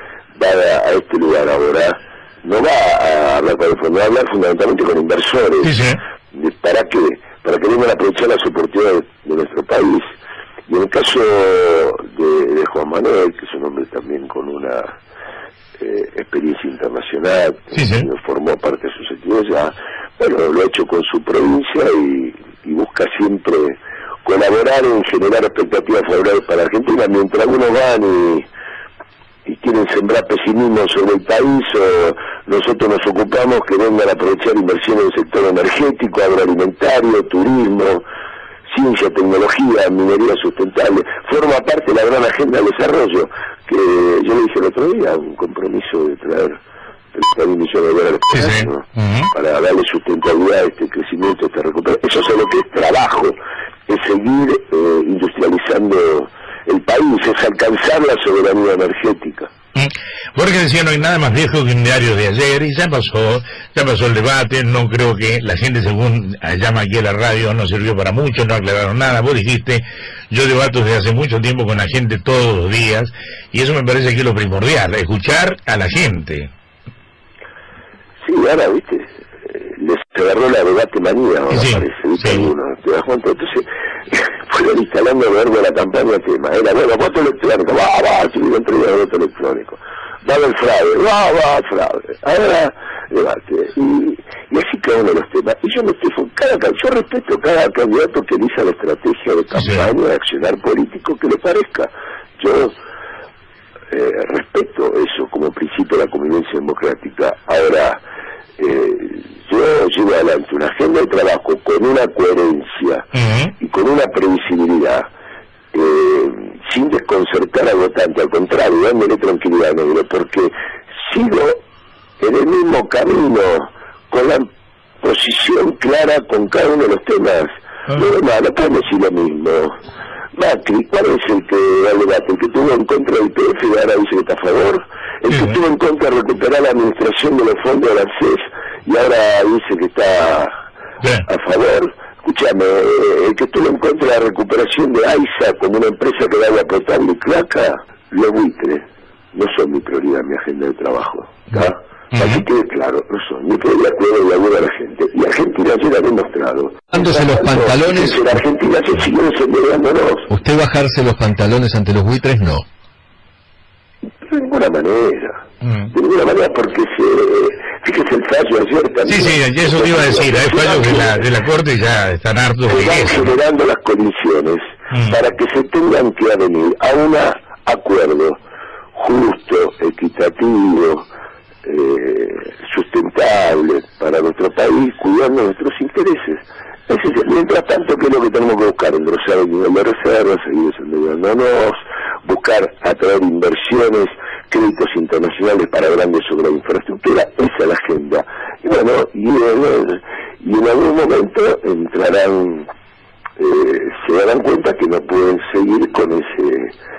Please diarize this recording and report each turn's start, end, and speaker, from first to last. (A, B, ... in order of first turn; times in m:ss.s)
0:00.4-0:05.7 A
0:05.6-0:06.0 B
0:06.3-0:10.1 A
0:10.7-0:15.0 A
0:15.8-0:28.5 A
0:17.7-0:18.1 B
0:29.5-0:38.0 A
0:38.7-0:46.6 A
0:47.1-0:59.5 A
0:48.3-0:49.3 B
0:59.8-1:16.5 B
1:18.2-1:42.8 A
1:21.5-1:22.5 B
1:39.5-1:39.9 B
1:43.9-1:48.0 A
1:48.6-1:53.1 A
1:53.1-1:53.5 B
1:53.6-1:55.1 A
1:55.7-2:01.6 A
2:02.2-2:04.5 A
2:05.0-2:09.8 A
2:10.4-2:20.5 A
2:15.3-2:15.6 B
2:21.3-2:40.3 A
2:32.1-2:32.4 B
2:36.9-2:38.3 C
2:40.3-2:42.6 C
2:44.2-2:51.3 A
2:45.6-2:45.9 B
2:49.1-2:53.3 B
2:52.7-2:58.4 A
2:54.9-2:55.2 B
2:59.0-3:01.1 A
3:01.6-3:22.7 A
3:23.4-3:26.7 A